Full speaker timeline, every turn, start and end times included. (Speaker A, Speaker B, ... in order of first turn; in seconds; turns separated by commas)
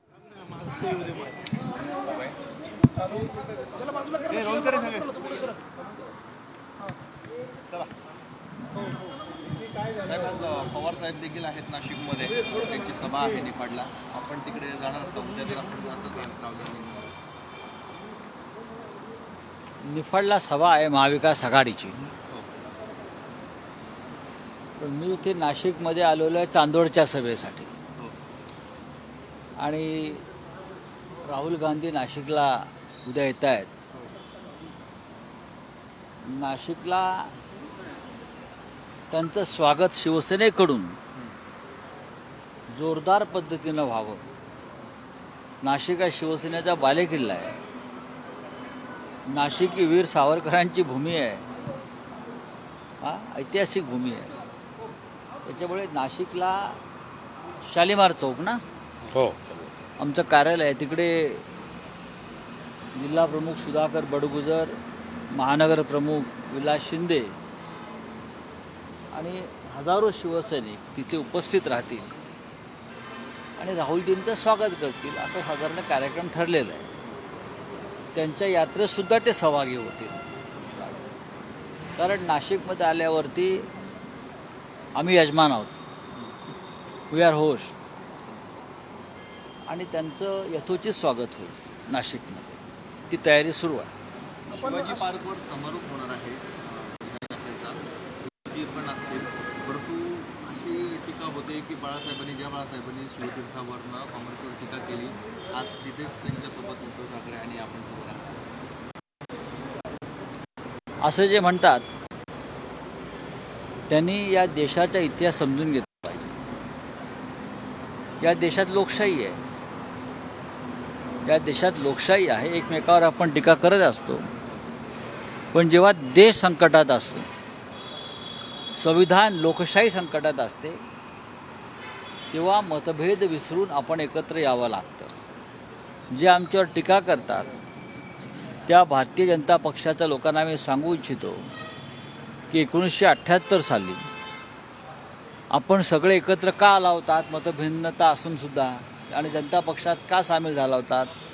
Speaker A: 2.0-2.4, Speaker A: 4.2-5.5, Speaker A: 9.9-17.1, Speaker B: 19.8-22.0, Speaker A: 22.3-22.5, Speaker B: 24.8-27.7, Speaker B: 29.6-30.2, Speaker B: 31.2-33.7, Speaker B: 36.2-37.3, Speaker B: 39.1-41.0, Speaker B: 42.7-44.2, Speaker B: 45.6-47.5, Speaker B: 49.3-51.5, Speaker B: 53.0-54.3, Speaker B: 55.5-56.8, Speaker B: 57.7-58.6, Speaker A: 59.0-59.4, Speaker B: 60.0-61.4, Speaker B: 62.9-64.8, Speaker B: 65.3-67.3, Speaker B: 69.1-72.1, Speaker B: 73.6-76.9, Speaker B: 78.1-80.2, Speaker B: 80.8-81.1, Speaker B: 82.0-83.7, Speaker B: 85.0-85.7, Speaker B: 87.1-87.7, Speaker B: 89.7-93.9, Speaker A: 94.5-108.3, Speaker B: 111.0-111.8, Speaker B: 113.9-116.3, Speaker B: 118.2-119.4, Speaker B: 121.2-124.3, Speaker B: 125.5-127.3, Speaker B: 128.7-130.8, Speaker B: 132.3-135.1, Speaker B: 136.1-137.5, Speaker B: 138.7-141.5, Speaker B: 142.5-144.1, Speaker B: 145.5-151.1